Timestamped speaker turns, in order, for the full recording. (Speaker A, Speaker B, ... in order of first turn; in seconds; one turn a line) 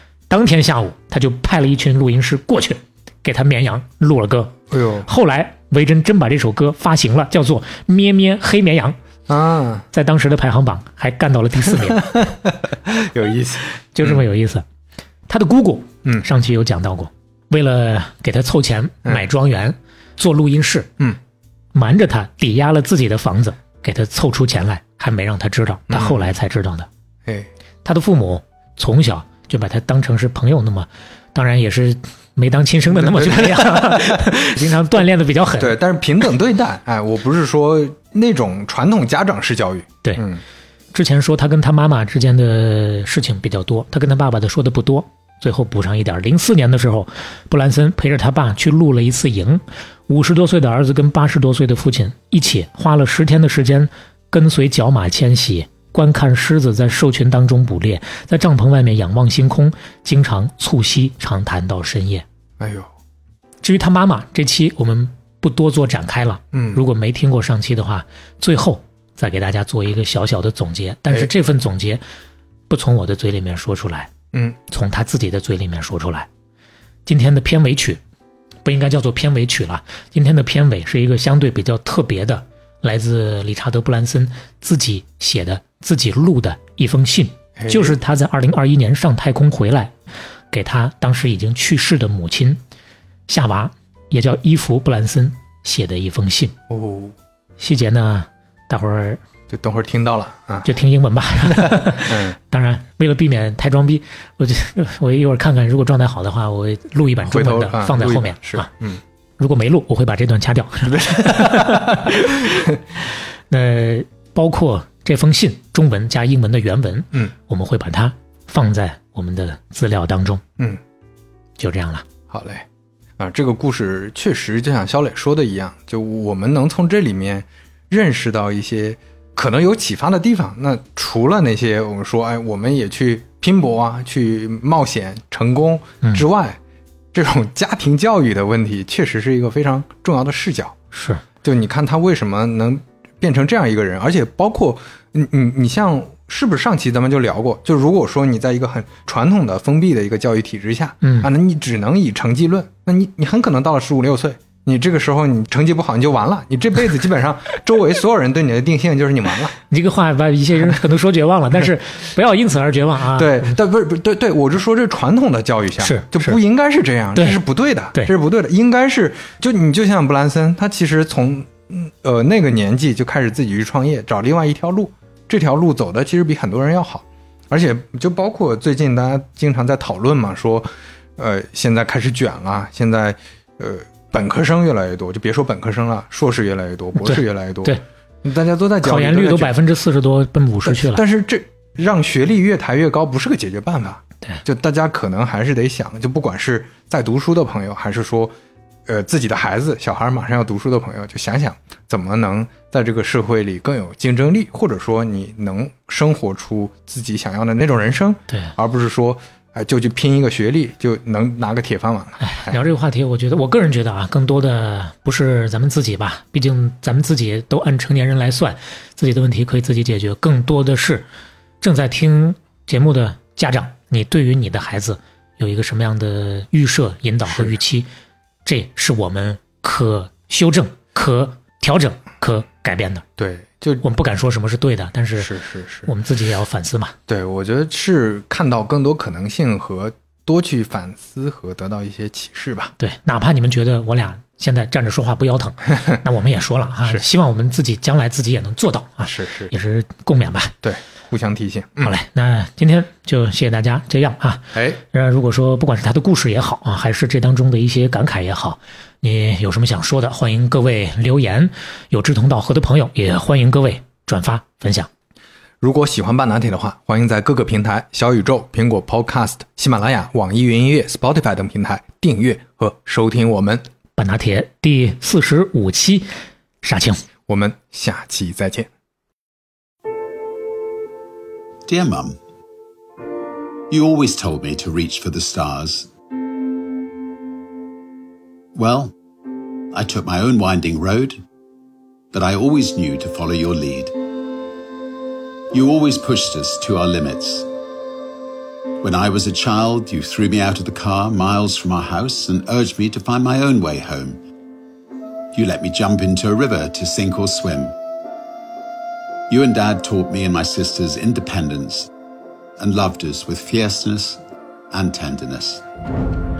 Speaker A: 0.3-9.0
Speaker B: 4.7-5.1
Speaker B: 9.3-9.8
Speaker A: 9.9-12.1
Speaker B: 11.8-14.2
Speaker A: 13.9-14.6
Speaker A: 15.3-20.9
Speaker A: 21.7-26.9
Speaker B: 25.9-26.3
Speaker B: 27.2-27.5
Speaker A: 27.8-35.8
Speaker B: 32.9-34.3
Speaker B: 35.6-40.4
Speaker A: 40.9-62.2
Speaker B: 62.6-62.9
Speaker A: 63.6-72.0
Speaker B: 66.5-66.8
Speaker A: 72.7-74.1
Speaker A: 74.7-76.3
Speaker A: 77.0-78.0
Speaker A: 78.6-89.9
Speaker B: 87.6-88.0
Speaker A: 90.5-92.6
Speaker A: 93.3-96.5
Speaker B: 96.7-97.1
Speaker A: 97.6-99.2
Speaker B: 99.5-100.7
Speaker A: 100.6-108.7
Speaker B: 101.5-102.3
Speaker B: 107.2-109.0
Speaker A: 109.4-112.7
Speaker B: 110.9-112.7
Speaker A: 113.5-120.4
Speaker A: 121.6-122.0
Speaker B: 122.3-122.7
Speaker B: 123.2-136.6
Speaker B: 137.1-140.8
Speaker A: 140.9-141.2
Speaker B: 141.4-159.6
Speaker A: 151.0-151.3
Speaker A: 159.7-163.5
Speaker B: 163.1-189.5
Speaker A: 165.8-166.4
Speaker A: 167.1-167.4
Speaker A: 187.0-187.8
Speaker A: 188.8-191.0
Speaker B: 190.6-198.3
Speaker B: 198.8-212.6
Speaker A: 212.2-221.1
Speaker A: 221.6-227.9
Speaker B: 227.3-227.6
Speaker A: 228.4-233.0
Speaker B: 233.2-233.8
Speaker A: 233.8-235.3
Speaker B: 235.2-235.9
Speaker A: 235.8-236.9
Speaker B: 237.1-242.7
Speaker A: 242.8-250.6
Speaker B: 249.1-249.5
Speaker B: 250.6-251.9
Speaker A: 251.8-264.9
Speaker B: 265.6-273.6
Speaker A: 274.0-276.1
Speaker A: 276.6-277.0
Speaker B: 277.3-278.7
Speaker C: 281.7-282.2
Speaker C: 283.7-285.9
Speaker C: 288.5-288.9
Speaker C: 289.7-291.2
Speaker C: 292.1-293.9
Speaker C: 295.5-297.5
Speaker C: 298.8-304.2
Speaker C: 305.3-307.7
Speaker C: 309.3-311.9
Speaker C: 312.6-315.6